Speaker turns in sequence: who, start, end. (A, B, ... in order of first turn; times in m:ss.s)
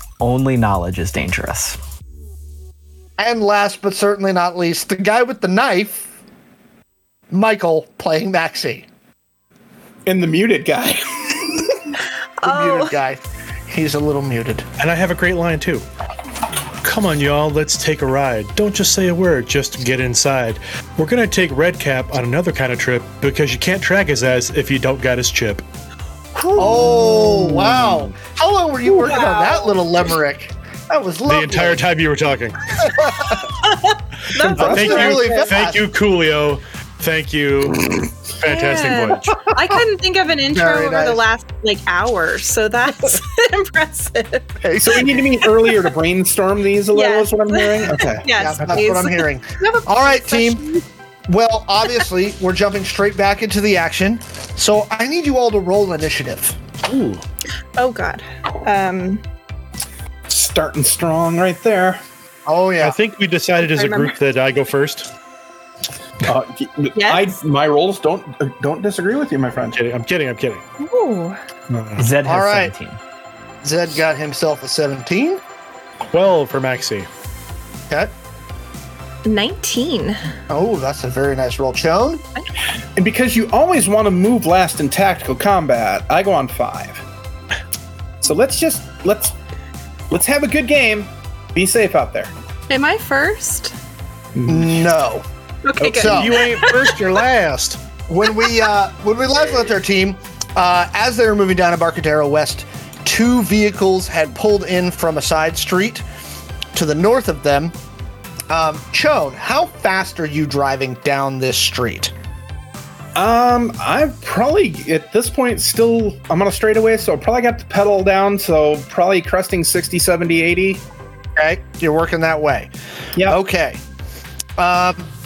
0:00.2-0:01.8 A
0:03.2-0:06.1 B
0:07.3-0:08.9 B
0:10.1-0:11.8 C
0:12.4-0:13.0 D
0:12.4-0:14.7 B
0:14.8-0:15.8 E
0:16.8-0:25.6 E
0:26.4-0:27.8 C
0:26.6-0:31.8 B
0:29.0-0:29.7 D
0:31.3-0:33.0 E
0:32.8-0:33.4 B
0:33.6-0:35.5 D
0:34.4-0:35.2 C
0:34.6-0:35.8 B
0:34.6-0:39.5 E
0:38.4-0:45.9 D
0:40.5-0:41.2 B
0:44.6-0:45.1 B
0:44.7-0:48.3 C
0:46.9-0:50.8 D
0:48.0-0:50.6 B
0:51.3-0:56.6 B
0:56.8-0:57.2 E
0:57.8-0:59.2 D
1:00.3-1:02.0 C
1:02.5-1:03.0 B
1:02.8-1:05.1 E
1:03.6-1:04.2 D
1:06.2-1:09.8 C
1:07.0-1:07.4 D
1:09.7-1:10.6 E
1:10.8-1:11.4 D
1:11.7-1:12.1 E
1:12.0-1:13.0 A
1:12.2-1:12.7 B
1:13.6-1:15.4 B
1:16.1-1:17.1 E
1:19.2-1:20.2 D
1:20.5-1:22.2 B
1:23.0-1:27.0 C
1:28.2-1:29.3 C
1:30.1-1:32.3 C
1:32.7-1:33.8 D
1:34.4-1:34.9 C
1:34.5-1:35.3 B
1:35.6-1:37.0 D
1:35.8-1:36.2 C
1:36.0-1:36.4 B
1:36.1-1:37.8 E
1:38.1-1:46.0 B
1:46.7-1:47.8 B
1:48.5-1:52.1 B
1:53.2-2:00.8 C
2:01.4-2:02.7 B
2:03.2-2:03.4 C
2:03.3-2:03.8 B
2:04.6-2:05.1 B